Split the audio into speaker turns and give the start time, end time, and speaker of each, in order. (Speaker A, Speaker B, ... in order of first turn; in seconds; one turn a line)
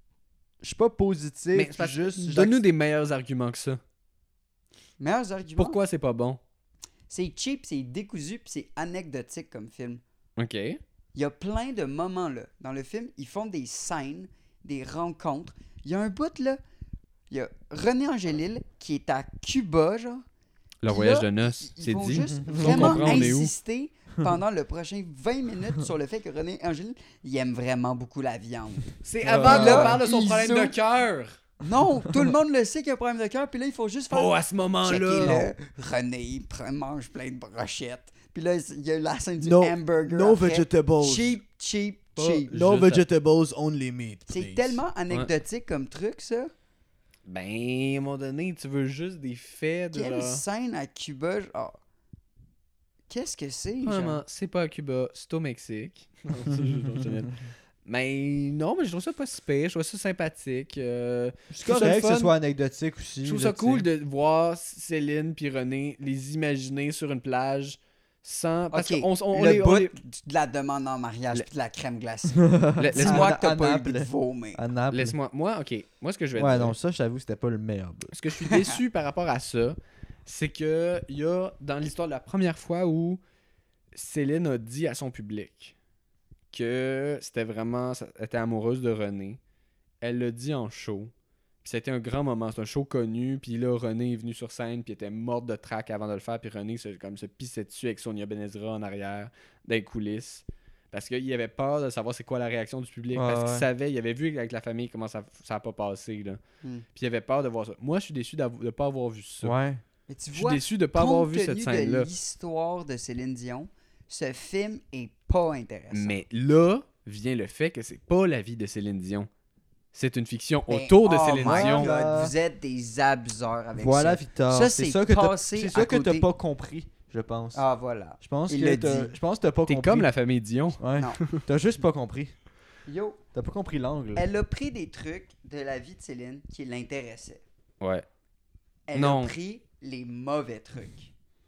Speaker A: 0.6-2.6
Speaker B: 1.5-3.8
Speaker C: 5.0-5.8
Speaker B: 5.6-6.4
Speaker C: 7.1-10.0
Speaker B: 10.4-10.8
Speaker C: 11.2-16.6
Speaker C: 17.3-20.2
Speaker B: 20.8-23.5
Speaker C: 20.9-30.8
Speaker A: 22.3-23.3
Speaker B: 29.0-31.4
Speaker A: 29.3-30.0
Speaker C: 31.6-42.5
Speaker B: 34.1-35.4
Speaker A: 35.2-35.5
Speaker A: 39.4-41.4
Speaker B: 42.2-43.0
Speaker A: 42.5-44.8
Speaker C: 44.3-46.5
Speaker B: 47.3-50.4
Speaker C: 49.9-51.8
Speaker C: 53.1-54.2
Speaker B: 53.8-62.3
Speaker A: 61.5-63.9
Speaker B: 63.2-70.0
Speaker C: 68.7-74.6
Speaker A: 72.5-75.2
Speaker B: 72.8-73.3
Speaker B: 74.9-76.8
Speaker A: 76.4-78.1
Speaker B: 78.1-83.2
Speaker C: 78.5-78.8
Speaker B: 83.9-85.8
Speaker B: 86.5-89.4
Speaker B: 90.0-91.1
Speaker B: 91.6-106.4
Speaker A: 103.1-103.7
Speaker B: 107.0-109.5
Speaker A: 109.4-109.8
Speaker C: 110.1-116.2
Speaker B: 110.3-112.1
Speaker B: 115.9-119.3
Speaker B: 119.9-121.9
Speaker C: 120.7-126.3
Speaker A: 121.5-122.3
Speaker A: 123.8-127.6
Speaker C: 127.5-129.2
Speaker A: 128.2-130.1
Speaker B: 129.7-131.4
Speaker A: 130.8-132.3
Speaker C: 132.9-133.2
Speaker A: 133.3-134.2
Speaker C: 134.2-137.4
Speaker C: 138.9-141.1
Speaker B: 138.9-139.3